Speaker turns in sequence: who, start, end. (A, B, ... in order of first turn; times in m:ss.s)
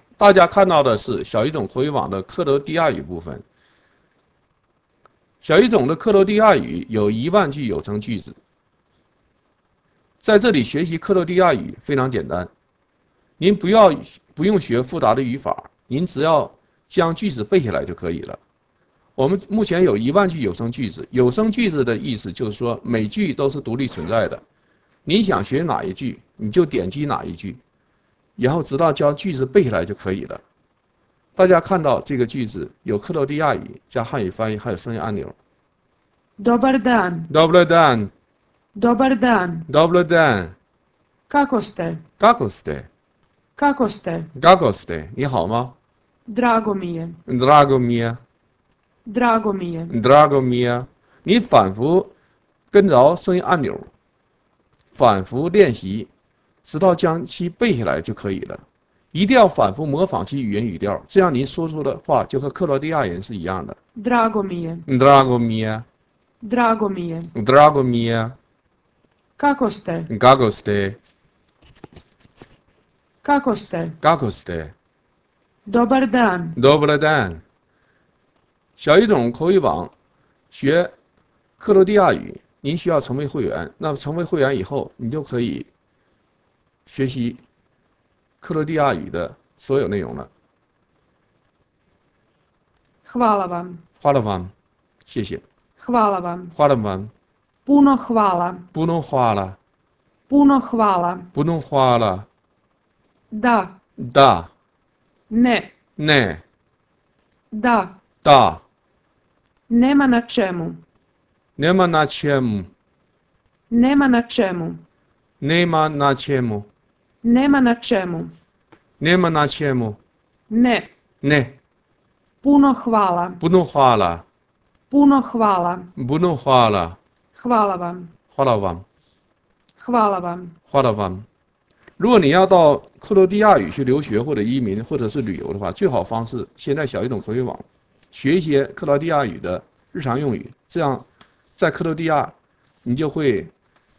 0:00.2-0:03.4 A
0:05.4-0:08.4 A
0:10.2-0:12.5 A
0:13.4-0:18.4 A
0:19.2-0:24.4 A
0:25.0-0:27.6 A
0:28.4-0:30.4 A
0:31.4-0:35.4 A
0:36.4-0:37.3 B
0:37.3-0:38.1 A
0:38.7-0:39.7 B
0:39.7-0:40.6 A
0:41.3-0:42.0 B
0:42.2-0:42.9 A
0:43.6-0:44.3 B
0:44.3-0:45.7 A
0:46.3-0:47.2 B
0:47.2-0:48.2 A
0:49.0-0:50.0 B
0:49.9-0:52.1 A
0:52.7-0:53.9 A
0:54.9-0:56.1 A
0:56.6-1:03.8 A
1:04.0-1:04.9 B
1:04.9-1:05.9 A
1:06.4-1:07.3 B
1:07.3-1:08.4 A
1:09.4-1:10.1 B
1:10.1-1:11.0 A
1:13.2-1:14.0 B
1:14.0-1:14.7 A
1:15.7-1:16.6 B
1:16.6-1:17.4 A
1:18.8-1:19.9 A
1:20.5-1:20.9 A
1:21.6-1:25.7 A
1:26.9-1:27.4 A
1:28.4-1:30.3 A
1:33.0-1:33.8 B
1:34.0-1:34.5 A
1:35.1-1:35.4 A
1:35.8-1:36.5 B
1:36.5-1:37.1 A
1:37.7-1:38.7 B
1:38.7-1:39.6 A
1:40.3-1:41.3 B
1:41.3-1:42.3 A
1:43.3-1:43.8 B
1:44.0-1:44.5 A
1:45.3-1:45.7 B
1:46.0-1:46.4 A
1:47.5-1:48.0 B
1:48.2-1:48.6 A
1:49.7-1:50.8 B
1:51.6-1:52.7 A
1:53.7-1:54.8 B
1:55.4-1:56.7 A
1:57.2-1:58.3 B
1:59.0-2:00.0 A
2:00.5-2:00.9 B
2:01.2-2:01.6 A
2:02.4-2:03.4 B
2:03.4-2:04.2 A
2:04.9-2:05.9 B
2:06.0-2:07.0 A
2:07.4-2:08.1 B
2:08.3-2:08.8 A
2:09.8-2:10.6 B
2:10.7-2:11.2 A
2:12.0-2:21.0 A
2:21.6-2:23.5 A